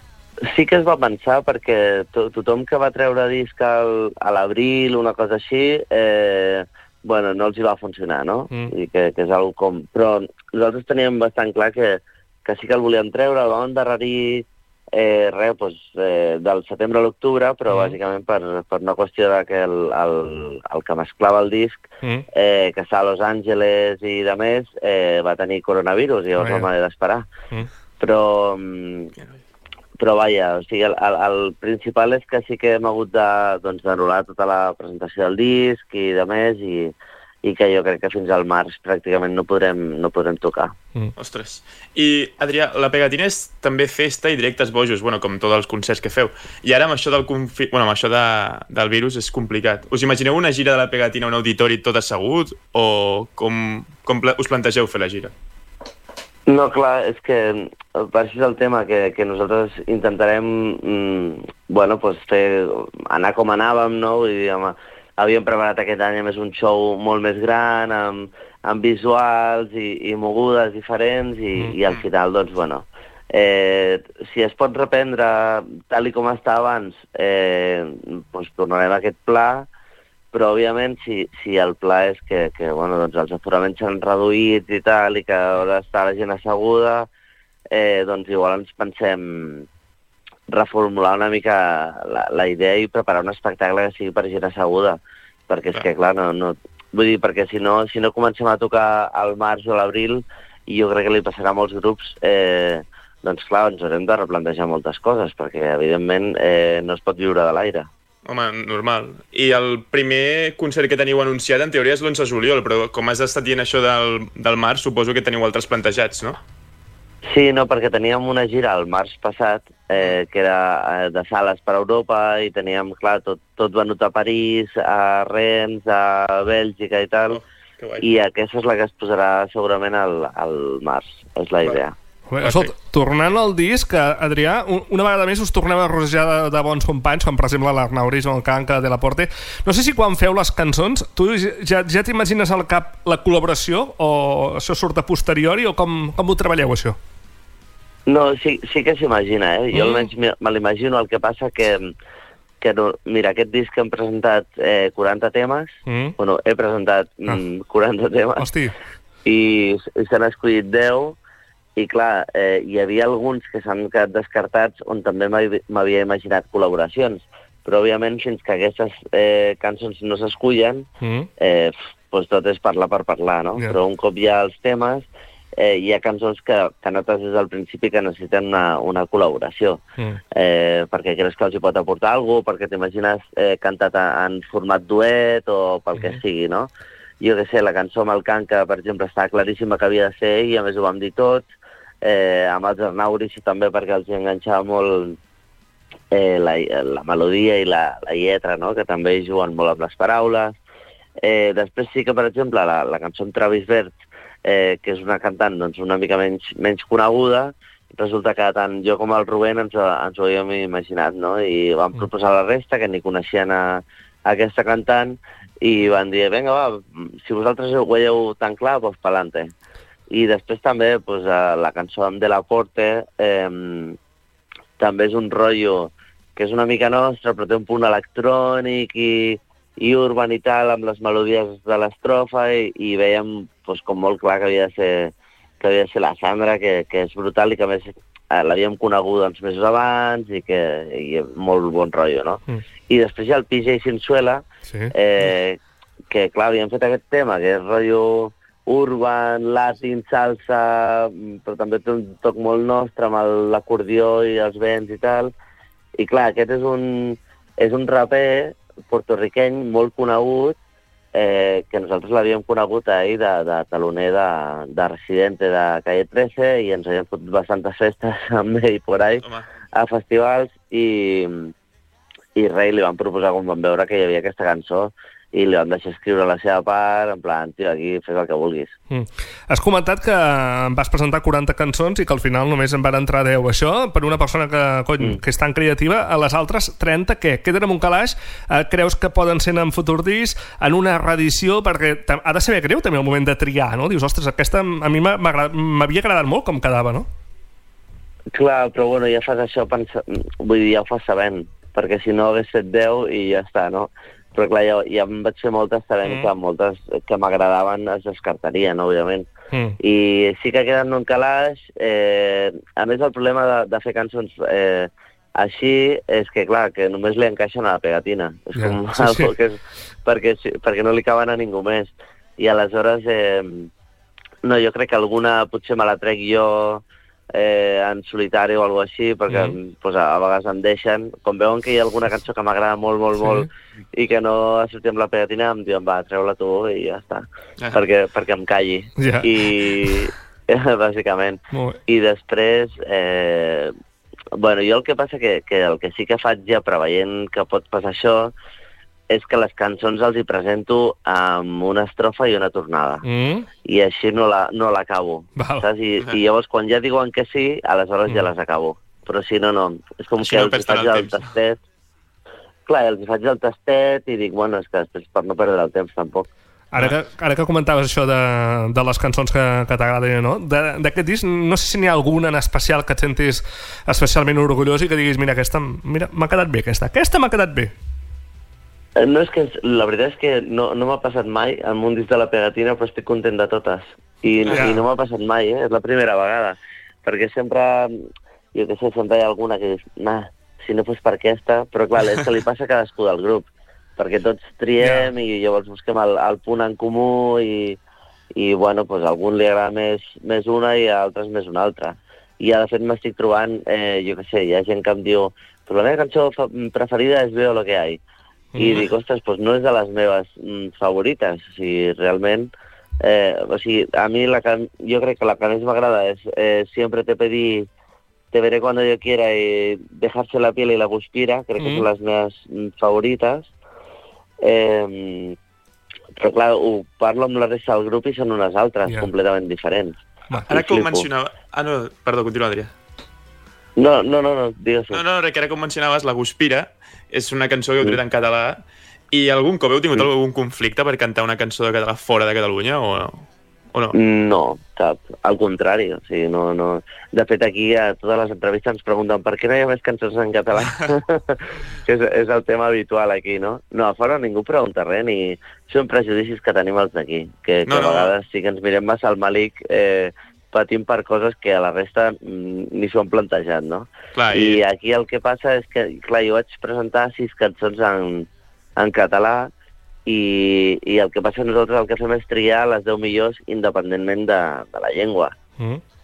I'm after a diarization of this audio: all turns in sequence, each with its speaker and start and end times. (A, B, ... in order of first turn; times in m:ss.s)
0:00.4-0:27.3 A
0:17.7-0:18.0 B
0:26.4-0:26.7 B
0:28.0-0:29.1 A
0:30.0-0:40.7 A
0:41.2-0:55.3 C
0:56.5-1:19.7 A
1:20.3-1:27.1 A
1:27.7-1:29.7 A
1:30.5-1:47.9 A
1:48.2-1:56.4 C
1:57.2-2:07.4 A
2:07.3-2:08.0 C
2:08.0-2:11.9 A
2:12.3-2:27.0 B
2:12.4-2:12.7 C
2:28.1-2:31.9 A
2:29.7-2:30.1 B
2:32.6-2:38.5 A
2:35.9-2:36.2 B
2:38.4-2:38.7 B
2:39.2-2:41.2 A
2:41.8-2:50.9 A
2:51.0-2:51.3 B
2:51.4-2:59.8 A
3:00.3-3:06.7 A
3:07.2-3:11.5 A
3:12.0-3:15.2 A
3:16.1-3:20.6 A
3:21.2-3:39.5 A
3:40.1-3:44.0 A
3:44.8-4:05.6 A
4:04.6-4:04.9 B
4:06.1-4:15.3 A
4:16.0-4:20.6 A
4:21.1-4:31.5 A
4:32.4-4:38.7 A
4:38.9-4:57.1 B
4:58.3-5:09.3 A
5:09.5-5:09.8 B
5:09.8-5:23.7 A
5:18.5-5:19.3 B
5:24.4-5:26.8 A
5:27.3-5:43.7 A
5:29.3-5:29.6 B
5:33.2-5:33.5 B
5:39.0-5:40.0 B
5:41.5-5:41.8 B
5:44.3-5:48.3 A
5:49.1-5:53.0 A
5:53.0-5:53.5 B
5:53.6-6:01.6 A
5:55.4-5:55.6 B
6:00.2-6:01.2 C
6:02.7-6:06.3 A
6:06.7-6:17.7 B
6:19.0-6:28.0 A
6:24.5-6:24.8 B
6:28.5-6:37.8 A
6:34.8-6:35.1 B
6:38.3-6:48.0 A
6:48.5-6:48.8 B
6:48.6-6:52.5 A
6:53.0-6:57.7 A
6:58.3-7:03.5 A
7:01.6-7:01.9 B
7:04.4-7:05.4 A
7:06.2-7:10.0 A
7:10.4-7:12.7 C
7:10.5-7:11.0 A
7:13.8-7:15.0 A
7:14.9-7:23.9 C
7:23.9-7:49.5 A
7:37.7-7:38.1 C
7:44.2-7:44.6 C
7:50.0-7:55.3 A